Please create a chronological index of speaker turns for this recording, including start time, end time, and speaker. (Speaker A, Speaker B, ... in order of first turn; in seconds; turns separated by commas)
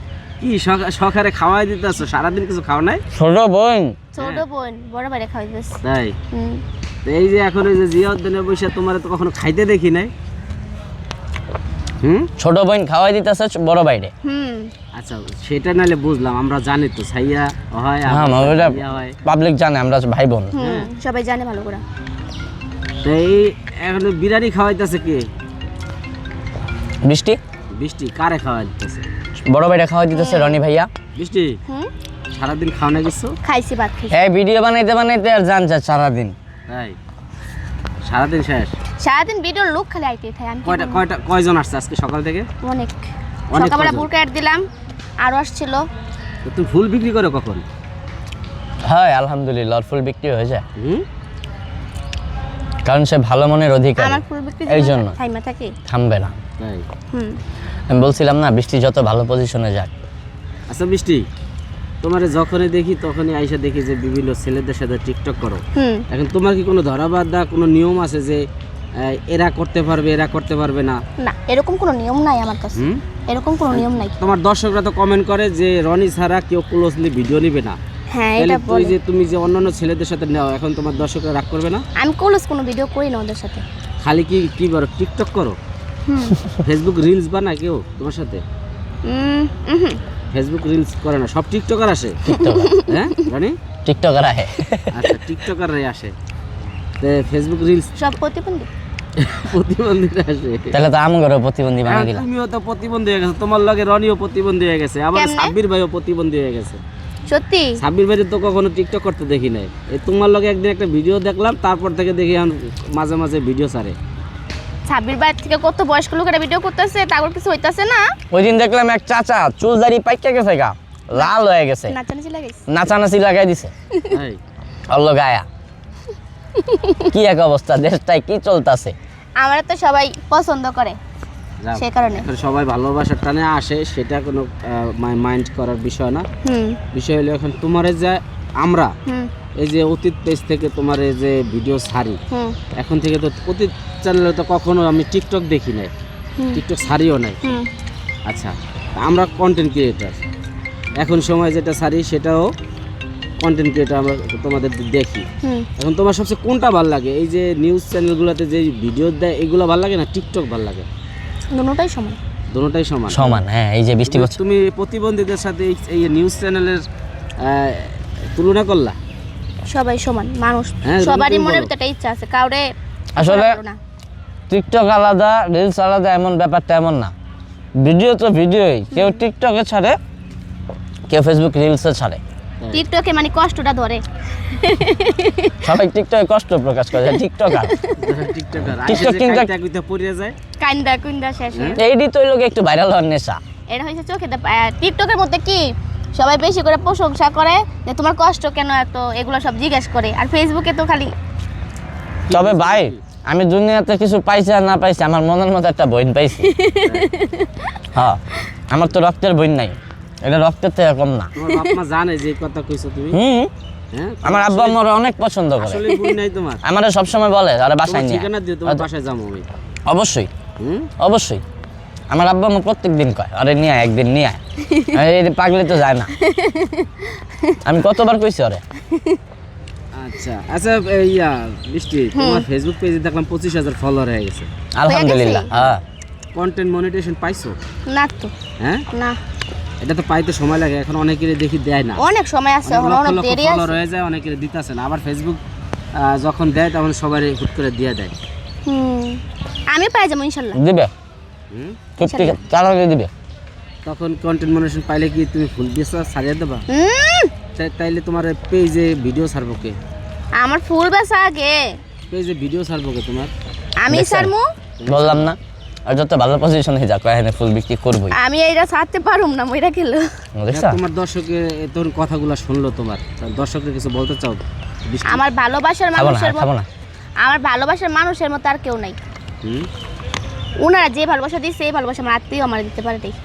Speaker A: 0.4-3.0, Speaker B: 3.1-4.0, Speaker C: 4.1-5.8, Speaker A: 4.2-4.4, Speaker A: 5.8-6.1, Speaker C: 6.3-6.6, Speaker A: 7.0-10.1, Speaker A: 12.0-12.3, Speaker B: 12.4-14.1, Speaker C: 14.2-14.7, Speaker A: 14.9-19.2, Speaker B: 18.1-20.6, Speaker C: 20.5-21.8, Speaker A: 20.6-20.9, Speaker A: 23.0-25.3, Speaker B: 27.0-27.4, Speaker A: 27.8-29.1, Speaker B: 29.5-30.9, Speaker C: 30.1-30.6, Speaker A: 31.2-31.6, Speaker A: 32.3-33.4, Speaker C: 33.4-34.2, Speaker B: 34.1-36.3, Speaker A: 36.7-37.0, Speaker A: 38.0-38.7, Speaker C: 39.0-41.0, Speaker A: 40.6-42.5, Speaker C: 42.6-43.0, Speaker A: 43.5-44.1, Speaker C: 43.5-44.6, Speaker C: 45.2-45.9, Speaker A: 46.4-47.6, Speaker B: 48.8-50.6, Speaker A: 50.8-51.0, Speaker B: 52.8-55.2, Speaker C: 54.0-55.8, Speaker B: 55.9-56.3, Speaker A: 56.6-56.8, Speaker C: 57.1-57.4, Speaker B: 57.9-59.9, Speaker A: 60.7-61.2, Speaker A: 62.0-68.4, Speaker C: 65.7-66.0, Speaker A: 69.0-71.0, Speaker C: 71.2-74.1, Speaker A: 72.8-73.0, Speaker A: 73.7-77.8, Speaker C: 78.1-79.0, Speaker A: 78.4-81.8, Speaker C: 82.0-83.6, Speaker A: 84.0-85.5, Speaker C: 86.1-86.4, Speaker A: 86.6-88.4, Speaker C: 89.0-90.0, Speaker A: 90.3-92.2, Speaker B: 92.2-92.7, Speaker C: 92.4-92.9, Speaker A: 92.8-93.6, Speaker B: 93.8-95.2, Speaker A: 94.9-96.1, Speaker A: 97.0-97.9, Speaker C: 98.0-98.7, Speaker A: 99.2-100.8, Speaker B: 100.7-102.3, Speaker A: 101.8-106.8, Speaker C: 105.1-105.5, Speaker C: 107.3-107.8, Speaker A: 107.8-114.0, Speaker C: 114.9-118.1, Speaker B: 118.3-122.0, Speaker C: 121.9-122.6, Speaker B: 122.7-123.7, Speaker A: 124.1-124.4, Speaker B: 124.9-125.5, Speaker C: 126.5-127.1, Speaker B: 127.1-128.9, Speaker C: 129.4-131.0, Speaker A: 131.6-136.2, Speaker C: 131.8-132.3, Speaker C: 136.4-136.8, Speaker A: 136.9-138.9, Speaker A: 139.6-142.2, Speaker C: 142.3-142.6, Speaker A: 142.8-145.9, Speaker A: 146.5-147.5, Speaker A: 148.3-150.2, Speaker A: 151.0-152.5, Speaker A: 153.4-155.2, Speaker A: 155.8-160.9, Speaker C: 161.5-162.2, Speaker A: 162.5-163.2, Speaker B: 163.1-164.3, Speaker C: 163.2-163.4, Speaker A: 164.0-166.8, Speaker A: 167.4-169.0, Speaker C: 169.7-172.7, Speaker A: 170.8-171.7, Speaker B: 173.2-173.6, Speaker C: 173.2-173.8, Speaker B: 174.5-177.1, Speaker B: 177.8-180.0, Speaker C: 178.9-179.2, Speaker B: 181.1-182.2, Speaker C: 182.7-185.7, Speaker B: 185.6-187.7, Speaker C: 187.5-188.3, Speaker A: 188.0-190.3, Speaker B: 188.8-189.5, Speaker C: 190.6-191.8, Speaker A: 191.5-191.8, Speaker B: 191.8-193.4, Speaker C: 193.7-201.1, Speaker A: 202.3-203.0, Speaker B: 202.3-206.5, Speaker C: 206.4-207.7, Speaker A: 206.8-207.1, Speaker B: 207.9-208.2, Speaker B: 208.7-211.3, Speaker A: 211.3-213.2, Speaker B: 213.1-213.5, Speaker A: 213.9-214.8, Speaker B: 214.2-215.9, Speaker A: 215.6-216.6, Speaker B: 216.6-218.8, Speaker A: 217.8-219.4, Speaker B: 219.9-220.3, Speaker A: 220.6-220.9, Speaker B: 221.0-221.4, Speaker B: 222.1-224.4, Speaker C: 224.7-225.0, Speaker B: 224.9-226.1, Speaker C: 226.2-227.6, Speaker B: 227.6-228.6, Speaker C: 228.9-229.2, Speaker A: 229.9-234.5, Speaker C: 232.1-232.4, Speaker B: 234.8-235.8, Speaker C: 234.9-235.5, Speaker A: 235.5-235.8, Speaker A: 236.3-237.6, Speaker C: 237.9-238.3, Speaker A: 238.6-238.8, Speaker A: 239.8-242.0, Speaker C: 242.0-243.8, Speaker A: 242.6-245.4, Speaker A: 246.0-248.1, Speaker C: 248.7-250.6, Speaker B: 250.5-250.9, Speaker A: 251.5-251.8, Speaker B: 252.0-253.1, Speaker C: 252.0-252.4, Speaker A: 253.8-256.7, Speaker C: 256.7-257.3, Speaker A: 257.6-259.8, Speaker C: 260.4-261.6, Speaker A: 262.1-263.3, Speaker C: 263.8-264.5, Speaker B: 263.9-264.3, Speaker A: 264.8-265.3, Speaker B: 264.9-268.2, Speaker C: 268.1-270.1, Speaker B: 270.4-270.8, Speaker A: 270.5-275.2, Speaker C: 275.1-276.5, Speaker B: 275.9-276.7, Speaker C: 277.2-279.0, Speaker C: 280.6-283.2